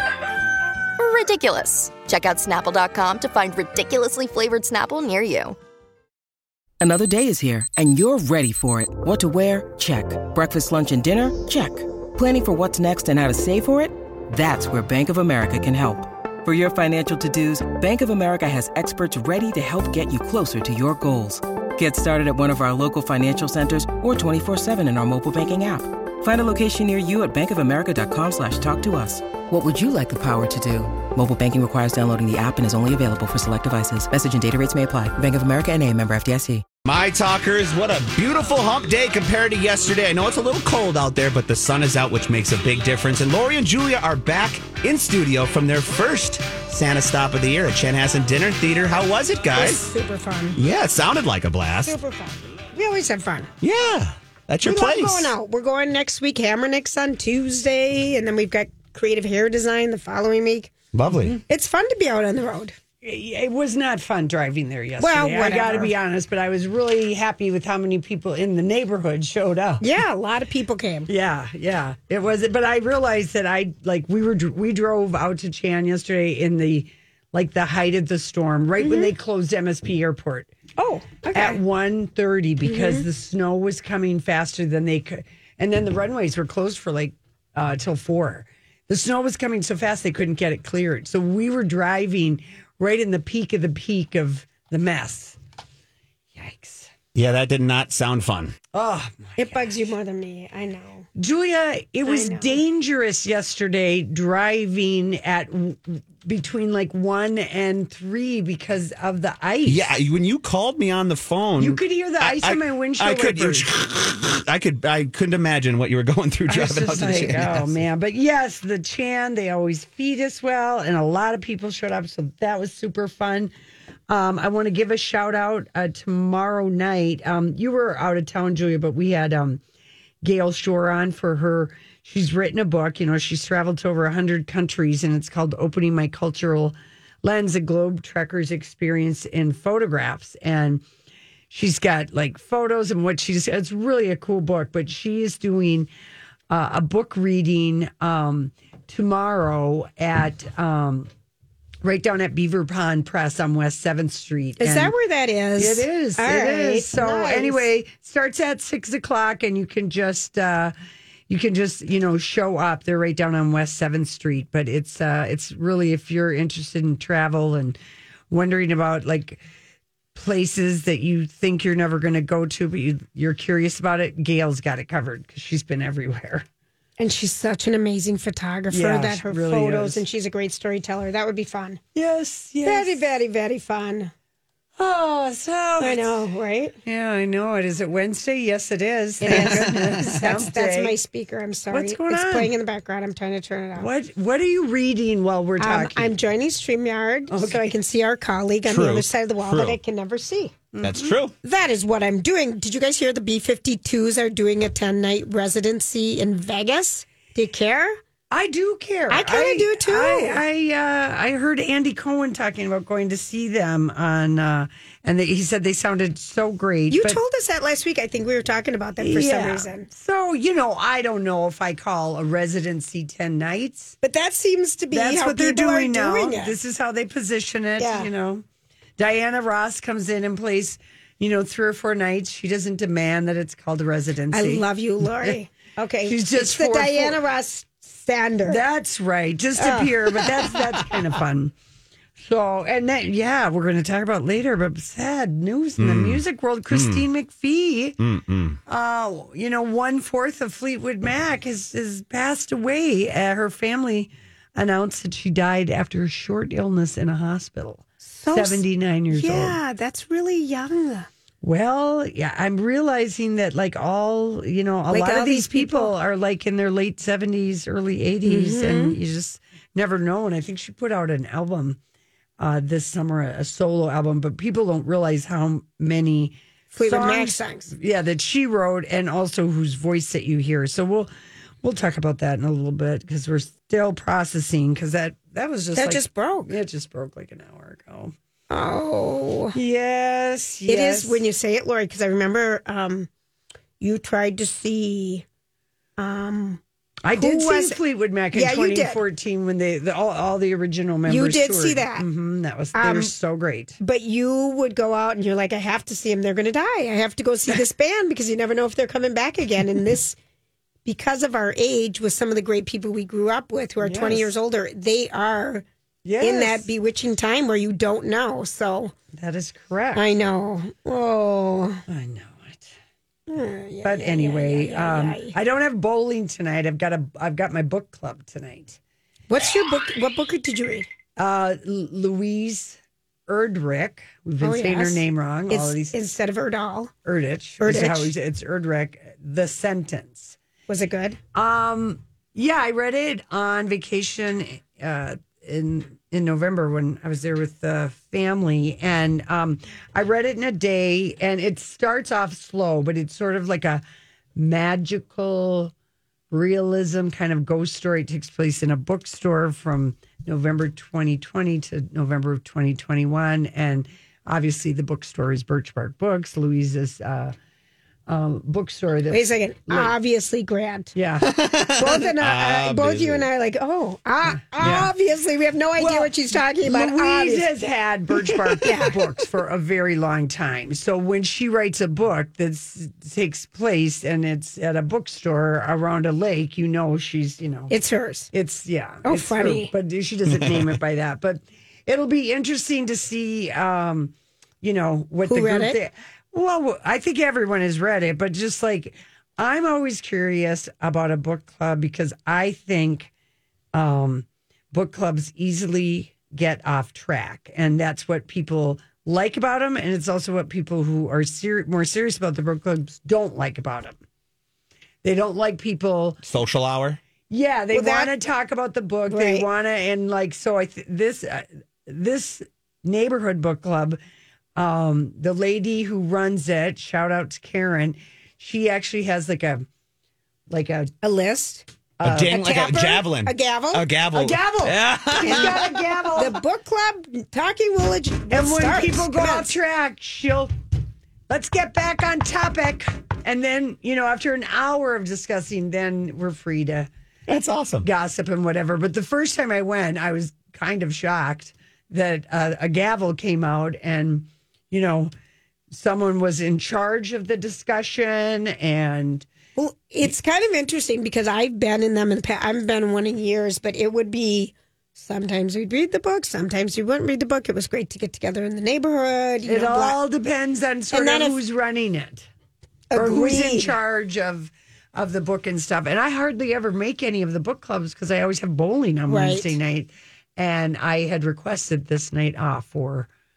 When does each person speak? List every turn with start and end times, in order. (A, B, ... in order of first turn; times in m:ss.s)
0:01.0-0:05.6 A
0:06.8-0:36.6 B
0:36.9-0:49.9 C
0:49.6-0:50.6 D
0:50.6-0:52.0 C
0:51.8-0:53.5 D
0:53.6-0:55.3 C
0:54.6-1:00.7 D
1:00.9-1:01.4 C
1:01.5-1:02.7 D
1:03.0-1:09.9 E
1:05.0-1:05.9 D
1:09.8-1:11.1 D
1:11.1-1:20.5 E
1:18.8-1:19.1 D
1:20.8-1:21.6 D
1:21.3-1:35.4 E
1:22.6-1:23.0 D
1:36.3-1:36.9 E
1:37.1-1:38.6 C
1:38.7-1:39.8 E
1:39.4-1:41.1 D
1:41.2-1:49.9 E
1:42.1-1:42.6 D
1:49.7-1:57.8 C
1:51.6-1:53.7 E
1:56.5-2:03.5 E
2:04.1-2:09.6 E
2:10.2-2:20.8 E
2:21.5-2:25.9 E
2:26.5-2:31.1 E
2:31.8-2:34.9 E
2:34.6-2:37.6 D
2:35.6-2:40.7 E
2:41.3-2:47.8 E
2:48.3-2:49.4 E
2:50.1-2:56.4 E
2:57.0-3:01.8 D
2:58.7-3:00.0 E
3:01.9-3:03.0 E
3:02.6-3:04.1 D
3:04.8-3:06.2 E
3:05.8-3:06.8 D
3:06.8-3:11.0 E
3:09.2-3:13.9 D
3:11.7-3:12.5 E
3:13.8-3:16.2 E
3:15.6-3:20.6 D
3:17.3-3:17.6 E
3:18.7-3:19.8 C
3:20.7-3:21.2 E
3:20.8-3:21.3 C
3:21.4-3:28.0 D
3:28.3-3:37.2 E
3:29.1-3:30.4 D
3:36.9-3:39.9 D
3:39.0-3:44.0 E
3:44.0-3:46.6 D
3:44.9-3:48.4 E
3:47.8-3:48.1 D
3:49.0-3:55.4 E
3:54.3-3:58.6 D
3:56.0-3:57.2 E
3:58.4-4:01.5 E
3:59.6-3:59.9 D
4:02.2-4:08.0 E
4:05.8-4:06.2 C
4:06.7-4:07.0 C
4:08.0-4:08.6 C
4:08.7-4:19.6 E
4:18.0-4:21.1 D
4:21.4-4:31.8 E
4:24.9-4:25.9 D
4:28.2-4:29.0 D
4:32.4-4:41.1 E
4:36.7-4:37.7 D
4:41.6-4:48.1 E
4:45.8-4:46.5 D
4:48.5-4:49.6 D
4:49.5-4:51.2 E
4:50.7-4:53.1 D
4:53.8-4:55.2 D
4:56.0-4:56.6 D
4:57.0-5:03.8 E
4:57.1-4:57.8 D
4:58.3-4:59.0 D
5:01.1-5:02.1 D
5:02.7-5:03.1 D
5:03.8-5:10.2 D
5:10.8-5:15.6 D
5:13.8-5:14.3 E
5:16.0-5:16.7 E
5:16.2-5:18.9 D
5:19.1-5:20.0 E
5:19.9-5:21.8 D
5:21.9-5:22.7 E
5:23.3-5:25.3 D
5:23.8-5:28.8 E
5:29.3-5:30.9 D
5:31.2-5:36.0 E
5:34.4-5:36.9 D
5:37.0-5:40.4 E
5:37.6-5:38.1 D
5:40.7-5:41.2 D
5:41.3-5:53.8 E
5:54.4-5:55.7 E
5:56.3-6:07.4 E
6:08.1-6:09.9 E
6:09.1-6:10.9 D
6:10.9-6:11.3 E
6:11.2-6:13.3 C
6:11.8-6:17.5 D
6:14.6-6:14.9 E
6:15.8-6:27.7 E
6:18.6-6:19.0 D
6:27.7-6:28.3 D
6:28.3-6:43.1 E
6:29.0-6:29.7 D
6:35.2-6:35.8 D
6:43.8-6:54.0 E
6:55.0-6:56.2 E
6:56.2-6:57.0 C
6:57.3-7:04.0 E
6:57.7-6:58.1 D
6:59.1-6:59.5 D
7:04.6-7:09.7 E
7:10.5-7:10.9 E
7:11.0-7:11.6 D
7:12.0-7:15.8 C
7:12.0-7:12.3 E
7:12.3-7:13.8 D
7:14.1-7:16.3 E
7:15.2-7:15.6 D
7:16.1-7:19.5 D
7:18.3-7:20.5 E
7:21.3-7:26.9 E
7:27.3-7:27.8 C
7:27.8-7:35.1 E
7:35.7-7:39.3 E
7:39.6-7:50.0 D
7:49.5-7:52.3 E
7:50.9-7:51.4 D
7:52.9-7:53.7 D
7:52.9-8:03.1 E
7:59.1-7:59.6 D